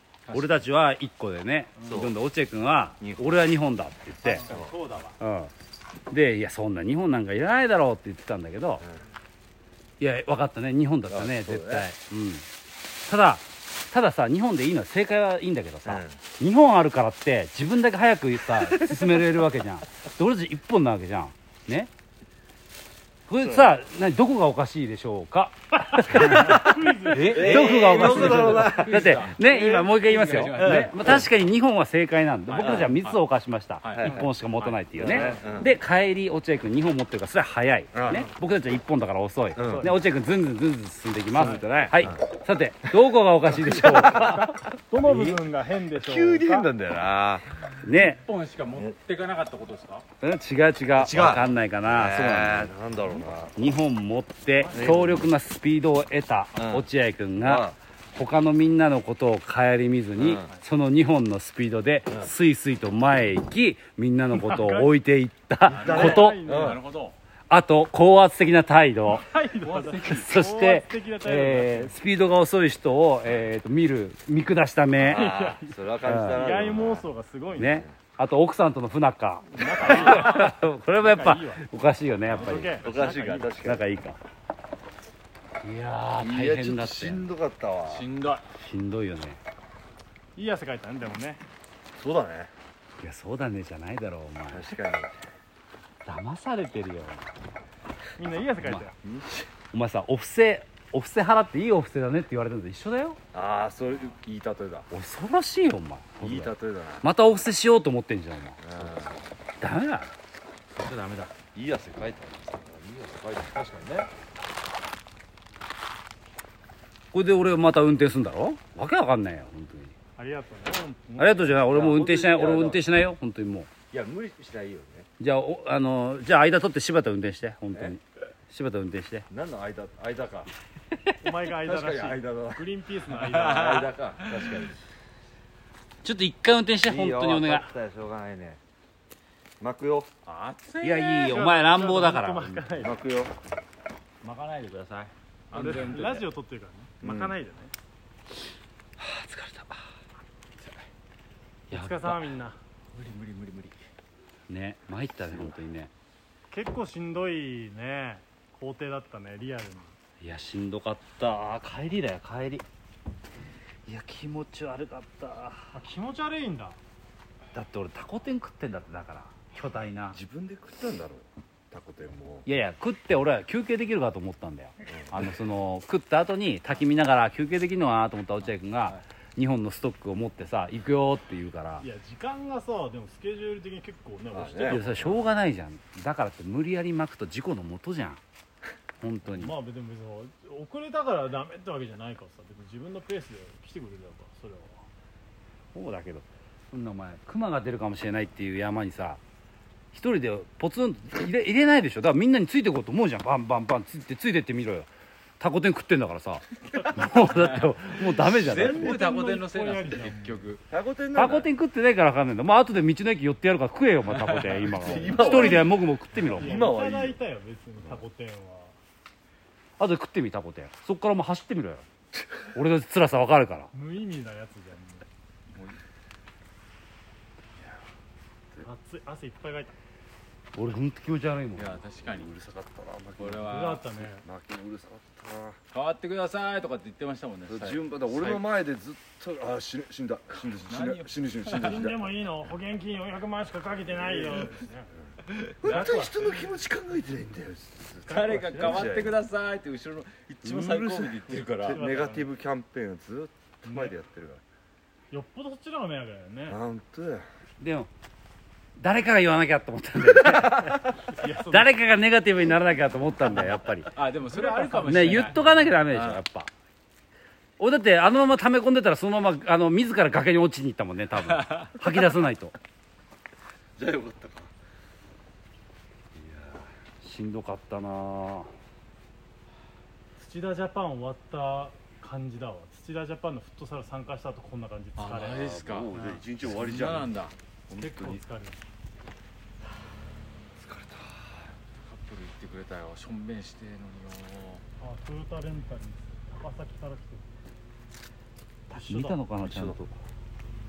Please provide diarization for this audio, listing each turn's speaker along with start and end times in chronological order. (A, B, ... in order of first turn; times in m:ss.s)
0:00.3-0:00.6 A
0:00.3-0:04.6 B
0:01.8-0:02.1 C
0:01.9-0:02.1 D
0:03.0-0:03.3 D
0:04.2-0:05.1 C
0:04.4-0:04.7 D
0:05.2-0:05.5 B
0:06.1-0:08.8 B
0:10.0-0:12.4 B
0:11.1-0:11.9 D
0:13.0-0:21.9 B
0:15.8-0:16.2 D
0:23.3-0:26.6 B
0:23.4-0:23.8 D
0:26.1-0:29.1 D
0:26.2-0:27.4 C
0:27.1-0:31.1 A
0:27.3-0:44.5 B
0:30.6-0:31.3 D
0:32.5-0:33.2 A
0:32.6-0:32.9 D
0:33.8-0:35.4 A
0:33.9-0:34.3 D
0:35.0-0:35.7 D
0:37.9-0:38.3 D
0:38.0-0:38.3 C
0:39.6-0:39.9 D
0:39.6-0:40.0 C
0:41.3-0:41.7 C
0:43.6-0:46.7 C
0:43.8-0:44.6 D
0:45.0-0:45.4 B
0:45.9-0:47.5 D
0:47.8-0:48.2 B
0:47.9-0:50.0 A
0:50.2-1:06.4 B
0:51.0-0:53.5 D
0:54.6-0:55.2 C
0:54.7-0:55.2 D
0:56.6-0:56.9 D
0:57.4-0:57.8 D
1:00.2-1:00.5 D
1:04.3-1:04.9 C
1:05.7-1:07.1 A
1:05.7-1:06.9 C
1:05.8-1:06.8 D
1:07.5-1:09.3 B
1:09.1-1:12.0 C
1:09.6-1:10.3 A
1:10.1-1:15.2 B
1:15.0-1:17.0 D
1:15.0-1:17.8 C
1:16.0-1:16.6 B
1:17.5-1:22.9 B
1:17.6-1:17.9 D
1:19.5-1:21.6 C
1:22.3-1:23.6 C
1:22.8-1:23.8 D
1:23.6-1:24.2 B
1:25.6-1:27.3 B
1:26.2-1:28.1 D
1:27.8-1:28.5 A
1:28.6-1:29.4 B
1:30.3-1:31.4 C
1:32.0-1:32.5 D
1:33.0-1:34.7 B
1:34.5-1:35.1 D
1:36.0-1:37.3 B
1:38.2-1:39.0 C
1:38.6-1:38.9 B
1:39.0-1:39.5 D
1:39.7-1:43.2 B
1:43.3-1:44.9 D
1:44.9-1:48.9 B
1:46.2-1:47.1 D
1:48.6-1:49.2 D
1:49.6-1:50.1 B
1:50.7-1:51.3 A
1:51.5-1:54.1 D
1:57.1-1:59.9 B
2:00.2-2:01.6 C
2:01.2-2:03.7 B
2:01.7-2:02.8 D
2:03.9-2:05.1 D
2:05.2-2:09.3 B
2:09.3-2:10.5 D
2:11.2-2:13.9 C
2:11.6-2:12.6 D
2:13.2-2:14.7 A
2:13.5-2:14.8 D
2:16.0-2:17.7 B
2:16.8-2:18.6 D
2:19.6-2:20.1 D
2:20.2-2:21.4 A
2:20.8-2:22.8 B
2:21.2-2:23.0 C
2:22.8-2:23.3 D
2:24.2-2:26.2 A
2:25.5-2:27.7 C
2:27.0-2:27.4 D
2:29.0-2:29.8 B
2:31.7-2:32.3 B
2:31.7-2:32.6 C
2:32.9-2:33.8 A
2:34.5-2:35.9 B
2:36.5-2:40.0 C
2:40.2-2:42.6 B
2:43.8-2:45.7 B
2:45.7-2:46.8 C
2:47.5-2:50.2 B
2:50.1-2:52.5 D
2:52.4-3:01.8 B
2:54.9-2:55.2 D
3:01.8-3:05.0 C
3:04.3-3:05.2 D
3:04.6-3:08.2 B
3:09.0-3:09.5 B
3:09.3-3:14.8 C
3:15.7-3:19.2 B
3:19.9-3:24.9 B
3:25.4-3:28.9 B
3:26.7-3:27.0 C
3:27.3-3:30.6 A
3:28.4-3:30.5 C
3:30.7-3:31.5 D
3:31.1-3:36.6 B
3:34.1-3:35.1 A
3:34.7-3:35.8 D
3:35.0-3:35.7 C
3:36.3-3:38.8 C
3:36.4-3:37.2 D
3:39.8-3:41.8 B
3:42.4-3:43.7 B
3:43.7-3:45.0 C
3:45.5-3:45.8 A
3:48.6-3:49.8 C
3:50.6-3:51.8 B
3:51.5-3:52.3 A
3:52.0-3:55.6 D
3:53.2-3:53.8 A
3:53.4-3:54.2 C
3:55.7-3:58.4 A
3:57.5-4:02.1 D
4:00.6-4:01.8 A
4:01.6-4:04.9 C
4:04.0-4:04.5 D
4:05.4-4:09.2 D
4:05.6-4:06.3 C
4:05.6-4:06.1 A
4:08.0-4:11.8 A
4:08.1-4:09.0 C
4:10.4-4:14.4 D
4:11.6-4:12.3 C
4:13.6-4:14.0 C
4:15.1-4:16.6 C
4:16.5-4:17.2 D
4:17.6-4:17.9 B
4:18.8-4:23.9 B
4:21.0-4:21.8 C
4:23.8-4:26.2 A
4:24.1-4:25.7 C
4:24.8-4:26.5 B
4:27.6-4:32.5 B
4:31.2-4:31.8 A
4:33.8-4:34.5 D
4:36.2-4:38.5 B
4:40.2-4:46.3 C
4:45.0-4:47.3 A
4:45.0-4:45.9 B
4:45.9-4:47.1 D
4:47.7-4:48.2 D
4:47.8-4:48.6 C
4:50.6-4:51.4 D
4:51.8-4:54.6 A
4:54.8-4:57.3 C
4:58.7-4:59.9 B
4:58.7-4:59.2 C
4:59.4-4:59.8 D